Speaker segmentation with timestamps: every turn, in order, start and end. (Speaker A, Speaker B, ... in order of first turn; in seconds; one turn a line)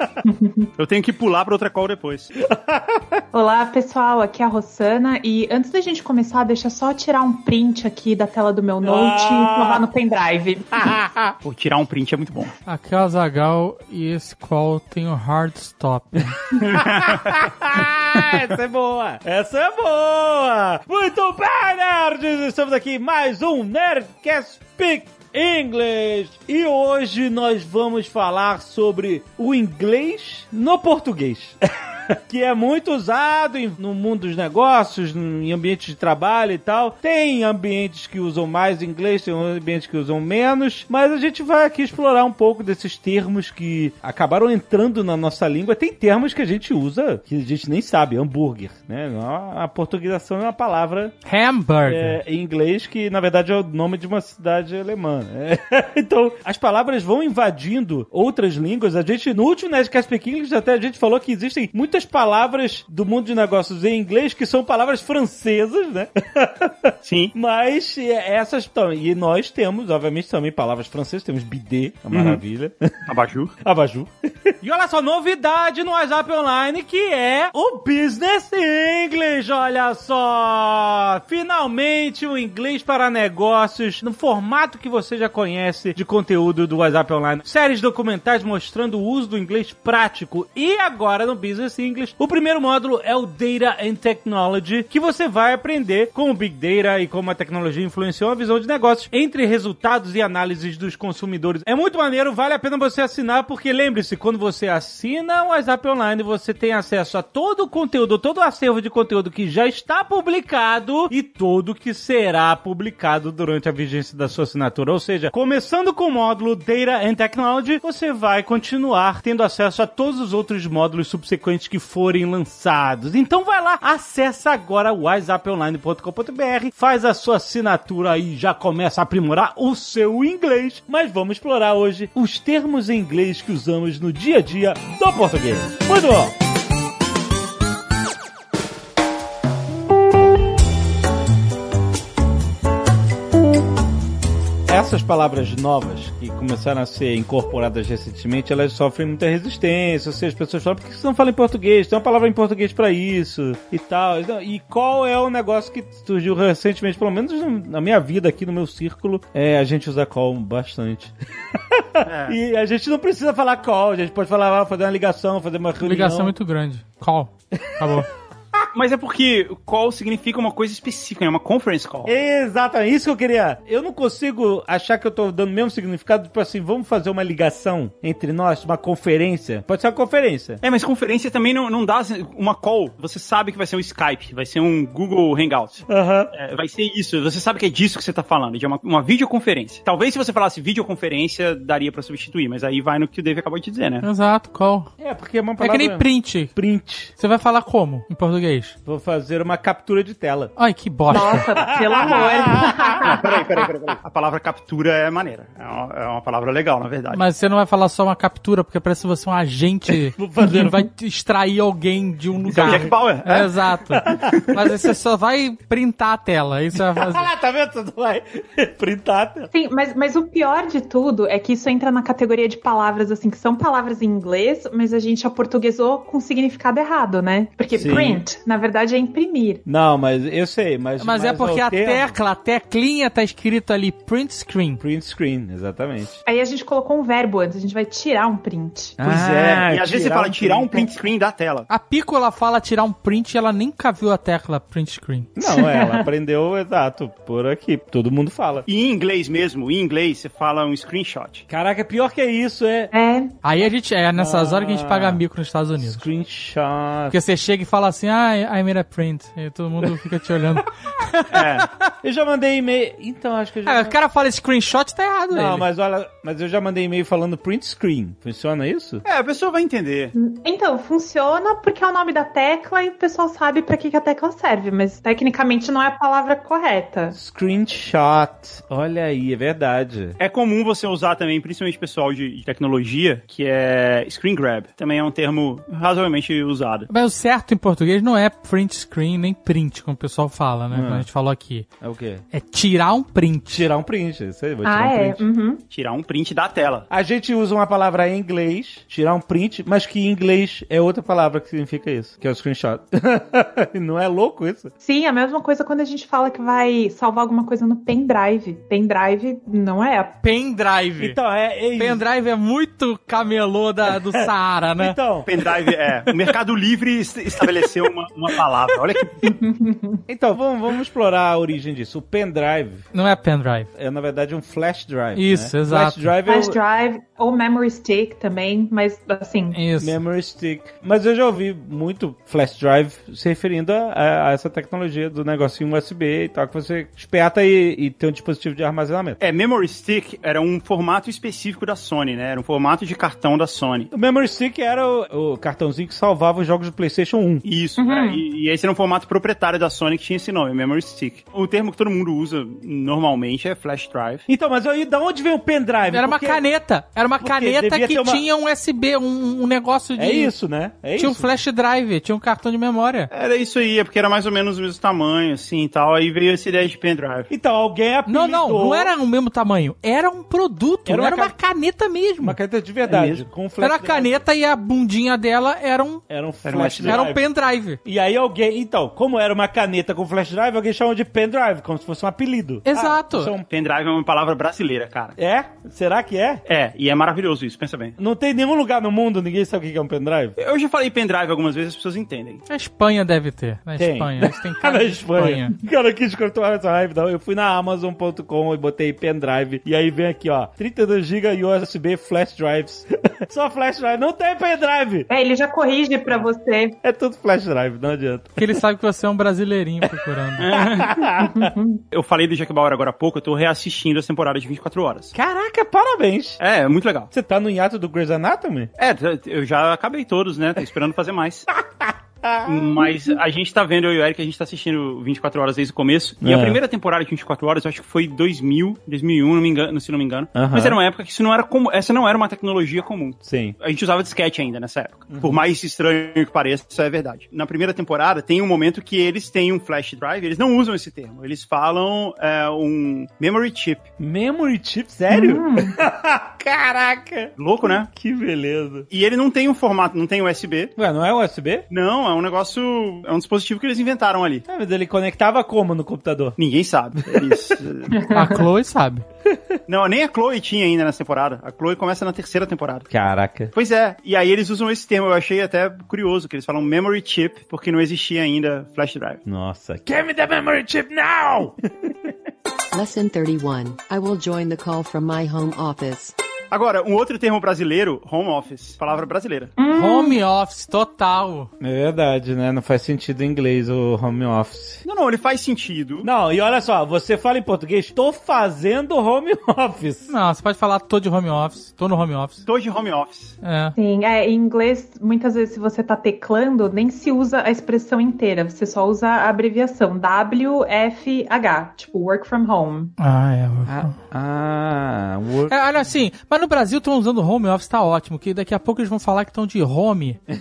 Speaker A: 0.2-0.7
Speaker B: 0.8-2.3
Speaker C: 2.5-3.2
Speaker A: 3.3-10.9
Speaker C: 8.8-9.8
Speaker C: 10.7-11.3
Speaker B: 11.4-12.5
Speaker D: 12.7-16.4
Speaker B: 16.6-17.4
Speaker C: 16.6-51.1
Speaker D: 51.2-52.2
Speaker C: 51.9-72.9
Speaker B: 67.0-67.3
Speaker B: 72.1-72.4
Speaker B: 73.1-73.5
Speaker C: 73.6-136.3
Speaker C: 144.7-166.3
Speaker B: 162.0-162.4
Speaker D: 165.8-168.1
Speaker C: 167.5-168.1
Speaker B: 168.7-172.1
Speaker C: 172.1-180.6
Speaker B: 180.6-194.1
Speaker C: 185.9-186.3
Speaker D: 194.0-194.9
Speaker C: 195.0-197.1
Speaker D: 195.6-196.6
Speaker D: 197.2-198.8
Speaker C: 198.9-200.5
Speaker D: 200.6-201.5
Speaker A: 201.1-203.3
Speaker C: 201.2-203.7
Speaker B: 203.0-207.2
Speaker D: 207.1-217.3
Speaker C: 210.2-210.8
Speaker B: 212.5-213.5
Speaker C: 212.6-212.9
Speaker C: 213.9-214.6
Speaker C: 216.8-219.5
Speaker A: 219.5-229.6
Speaker C: 227.7-228.2
Speaker C: 229.7-232.2
Speaker D: 231.0-234.8
Speaker C: 234.8-236.2
Speaker A: 236.3-239.0
Speaker C: 239.0-240.9
Speaker B: 239.0-241.7
Speaker D: 241.7-245.3
Speaker C: 245.4-248.7
Speaker A: 245.4-246.1
Speaker B: 248.7-251.5
Speaker C: 251.5-252.9
Speaker A: 252.9-253.4
Speaker D: 253.4-256.0
Speaker C: 254.2-255.2
Speaker C: 255.8-257.2
Speaker D: 257.1-261.7
Speaker B: 261.3-261.7
Speaker C: 262.0-264.0
Speaker D: 263.6-265.7
Speaker C: 265.3-269.0
Speaker B: 269.1-270.1
Speaker A: 270.1-277.2
Speaker C: 277.1-280.2
Speaker B: 280.2-286.9
Speaker D: 286.9-291.7
Speaker C: 290.7-291.1
Speaker C: 291.8-292.2
Speaker D: 292.3-293.7
Speaker C: 293.5-295.2
Speaker A: 294.6-295.6
Speaker B: 295.7-296.9
Speaker C: 296.9-304.7
Speaker A: 304.8-310.2
Speaker D: 310.2-311.2
Speaker C: 311.0-312.0
Speaker D: 311.8-315.0
Speaker C: 314.2-315.3
Speaker B: 315.3-319.2
Speaker A: 319.2-320.0
Speaker C: 320.1-322.9
Speaker D: 322.9-323.7
Speaker C: 323.8-326.6
Speaker D: 325.1-326.1
Speaker A: 326.3-329.6
Speaker D: 329.5-330.0
Speaker C: 329.8-339.2
Speaker B: 339.2-343.9
Speaker C: 343.9-347.4
Speaker B: 347.4-354.3
Speaker A: 347.8-348.2
Speaker C: 354.3-356.4
Speaker D: 355.9-360.3
Speaker C: 357.2-358.2
Speaker C: 360.0-361.3
Speaker D: 361.0-363.1
Speaker B: 363.1-367.3
Speaker C: 367.3-368.9
Speaker D: 368.1-372.4
Speaker C: 370.9-371.3
Speaker C: 372.2-374.2
Speaker B: 372.9-373.2
Speaker D: 373.6-376.0
Speaker C: 376.1-377.2
Speaker B: 376.5-377.0
Speaker D: 376.8-377.8
Speaker C: 377.9-383.4
Speaker D: 382.7-383.3
Speaker B: 383.5-385.2
Speaker C: 385.2-386.4
Speaker B: 386.5-388.0
Speaker C: 388.0-390.4
Speaker B: 390.4-392.4
Speaker D: 392.5-395.6
Speaker C: 393.8-405.1
Speaker A: 405.1-406.8
Speaker C: 406.8-408.4
Speaker D: 408.4-410.5
Speaker B: 410.4-411.0
Speaker C: 410.5-411.5
Speaker A: 411.0-411.8
Speaker B: 411.9-415.1
Speaker C: 415.1-416.4
Speaker B: 416.4-417.1
Speaker C: 417.1-418.7
Speaker B: 418.8-421.5
Speaker C: 421.5-422.9
Speaker B: 422.4-443.9
Speaker C: 426.2-426.6
Speaker C: 430.3-430.8
Speaker C: 433.2-433.6
Speaker C: 435.1-435.4
Speaker C: 444.0-448.9
Speaker A: 445.1-445.8
Speaker B: 447.4-447.9
Speaker B: 448.9-450.7
Speaker C: 450.8-451.7
Speaker B: 451.7-454.4
Speaker C: 454.5-456.4
Speaker B: 456.4-458.0
Speaker C: 457.1-457.6
Speaker A: 457.9-458.4
Speaker D: 458.1-459.1
Speaker C: 459.3-459.6
Speaker B: 459.7-462.9
Speaker C: 462.9-463.5
Speaker B: 463.5-469.2
Speaker C: 469.2-472.1
Speaker E: 472.7-476.1
Speaker B: 476.5-479.5
Speaker A: 479.6-480.2
Speaker D: 479.7-481.5
Speaker C: 481.6-484.8
Speaker B: 484.8-486.1
Speaker C: 486.0-490.1
Speaker D: 490.1-492.4
Speaker B: 492.5-493.4
Speaker D: 493.4-493.8
Speaker A: 493.8-502.9
Speaker D: 503.0-503.9
Speaker C: 503.7-505.5
Speaker D: 505.5-510.2